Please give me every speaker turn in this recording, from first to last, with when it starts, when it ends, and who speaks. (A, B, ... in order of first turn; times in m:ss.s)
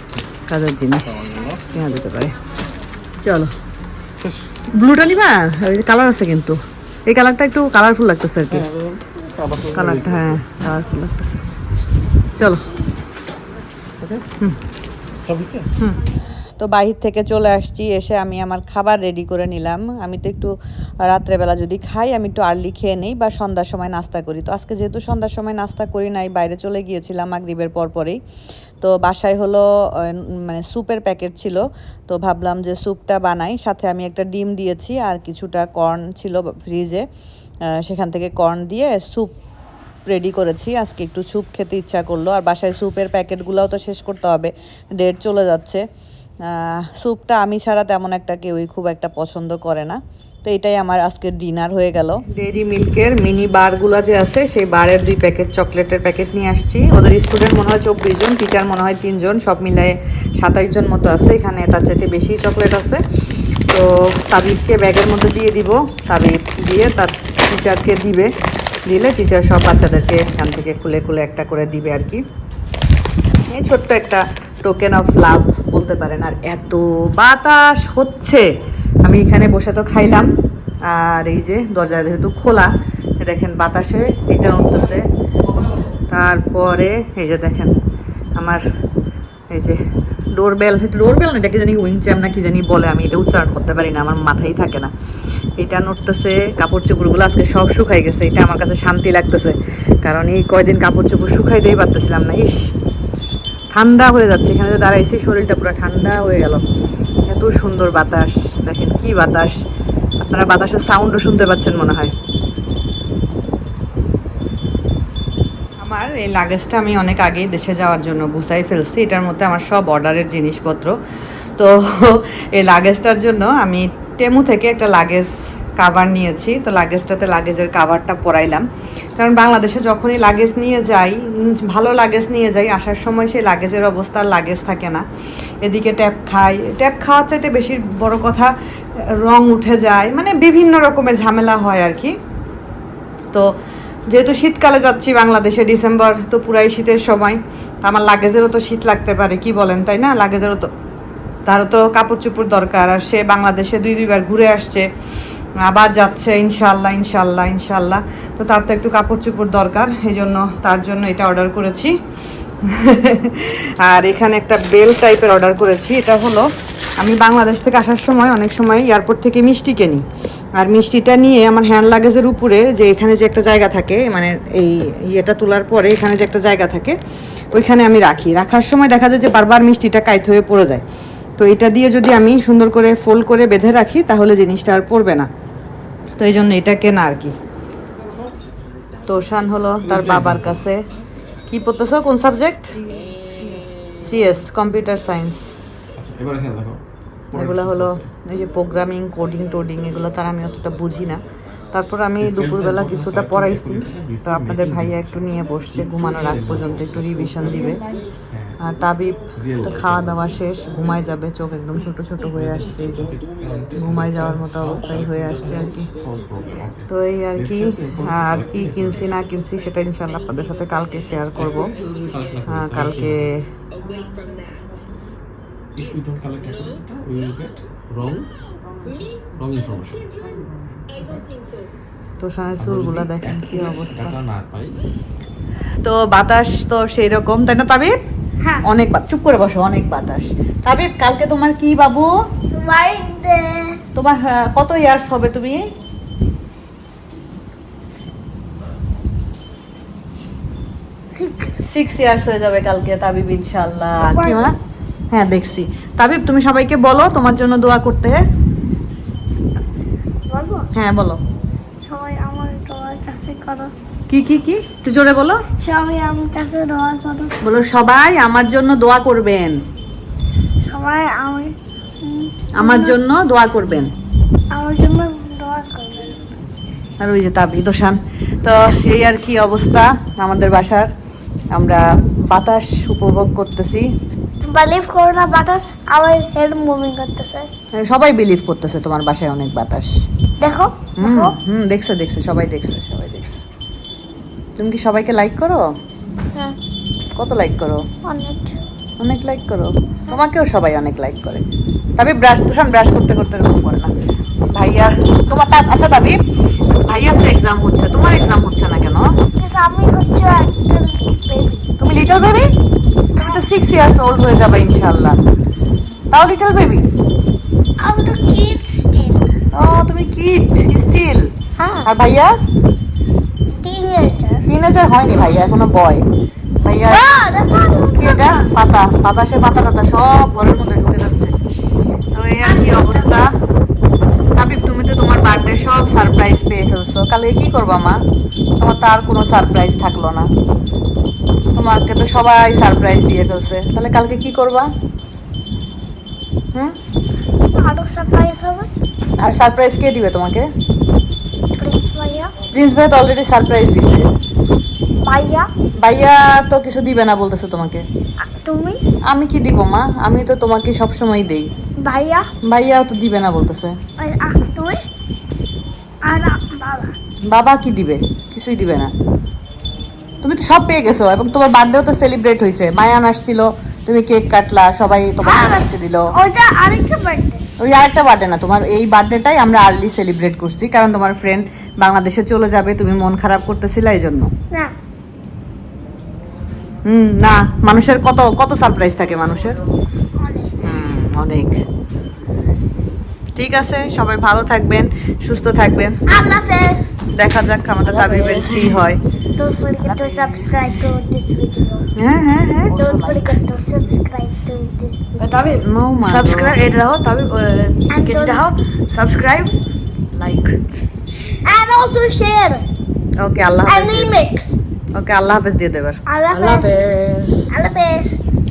0:00.5-0:02.4 A
0:03.2-0:03.5 A
0:04.7-0:08.7 A
0:09.2-0:09.7 B
0:09.7-0:11.4 A
0:12.4-0:12.6 A
0:15.2-0:15.7 B
0:16.6-0:28.2 A
0:28.8-0:37.1 A
0:37.8-0:39.4 A
0:40.1-0:45.8 A
0:46.5-1:03.0 A
1:03.7-1:08.3 A
1:08.9-1:12.2 A
1:13.5-1:18.5 A
1:19.0-1:20.3 A
1:20.8-1:25.1 A
1:26.1-1:27.8 A
1:28.4-1:28.6 A
1:29.5-1:29.8 A
1:30.3-1:34.9 A
1:35.6-1:42.8 A
1:43.7-1:46.6 A
1:47.3-1:49.6 A
1:50.2-1:52.2 A
1:55.8-2:01.0 A
2:01.6-2:15.0 A
2:15.6-2:22.2 A
2:24.1-2:30.7 A
2:31.5-2:34.9 A
2:35.7-2:42.0 A
2:42.6-2:50.0 A
2:50.6-2:57.0 A
2:57.5-3:00.8 A
3:01.4-3:05.3 A
3:06.2-3:07.4 A
3:09.1-3:10.8 A
3:09.8-3:10.6 B
3:11.5-3:12.8 A
3:14.0-3:15.5 A
3:16.0-3:16.8 B
3:17.3-3:27.8 A
3:17.4-3:18.1 B
3:22.2-3:27.7 B
3:28.3-3:28.6 B
3:28.6-3:33.0 A
3:29.4-3:30.8 B
3:32.3-3:39.2 B
3:33.8-3:35.9 A
3:36.9-3:41.8 A
3:41.3-3:43.2 B
3:42.5-3:43.5 A
3:45.8-3:48.3 B
3:49.3-3:50.1 B
3:52.2-3:54.2 A
3:52.6-3:54.8 B
3:55.8-3:58.0 A
3:58.6-4:02.1 A
4:02.5-4:03.8 C
4:04.0-4:05.6 A
4:11.1-4:11.6 C
4:11.6-4:14.5 A
4:14.0-4:14.5 C
4:15.1-4:18.2 A
4:20.3-4:20.7 C
4:20.7-4:21.2 A
4:21.8-4:23.7 C
4:24.1-4:25.4 A
4:25.6-4:27.4 C
4:27.4-4:29.6 A
4:30.6-4:33.0 C
4:32.6-4:33.9 A
4:34.5-4:36.2 C
4:37.0-4:40.9 A
4:41.5-4:43.8 A
4:44.5-4:47.5 C
4:47.8-4:49.9 A
4:50.4-4:51.3 C
4:51.0-4:53.4 A
4:54.6-4:55.7 A
4:57.2-4:57.8 A
4:58.0-4:58.6 C
4:59.0-5:01.4 A
5:02.0-5:03.9 A
5:04.5-5:06.2 A
5:06.9-5:09.1 A
5:09.4-5:11.7 C
5:11.8-5:12.5 A
5:13.2-5:13.4 C
5:13.2-5:15.2 A
5:16.1-5:16.9 A
5:17.8-5:19.3 C
5:19.5-5:21.3 A
5:21.6-5:21.9 C
5:21.8-5:22.3 A
5:23.6-5:24.4 C
5:24.5-5:26.0 A
5:26.6-5:27.2 A
5:26.9-5:28.5 C
5:28.0-5:31.3 A
5:32.2-5:33.3 A
5:32.4-5:33.0 C
5:34.4-5:38.0 A
5:38.6-5:40.3 A
5:41.5-5:44.7 A
5:47.6-5:48.7 C
5:49.2-5:50.5 A
5:51.6-5:52.3 C
5:52.5-5:54.0 A
5:55.0-5:55.5 C
5:55.8-5:57.8 A
5:58.3-5:58.8 C
5:59.1-6:01.5 A
6:01.8-6:02.2 C
6:02.4-6:03.8 A
6:04.0-6:04.8 C
6:06.1-6:06.9 C
6:07.3-6:08.9 A
6:10.2-6:16.1 A
6:15.2-6:17.4 C
6:17.6-6:24.3 A
6:26.8-6:29.6 A
6:30.2-6:30.5 C
6:30.6-6:31.6 A
6:33.4-6:36.0 A
6:36.1-6:36.9 C
6:37.1-6:39.0 A
6:37.9-6:38.8 D
6:39.4-6:41.9 C
6:39.8-6:40.4 D
6:42.0-6:43.3 A
6:42.7-6:45.4 C
6:45.2-6:49.6 D
6:45.6-6:46.6 A
6:47.9-6:48.6 C
6:50.2-6:50.6 D
6:51.4-6:52.6 C
6:53.2-6:54.1 A
6:53.7-6:54.6 C
6:55.0-6:56.0 A
6:56.1-6:56.9 C
6:56.3-6:57.5 D
6:57.5-6:58.2 C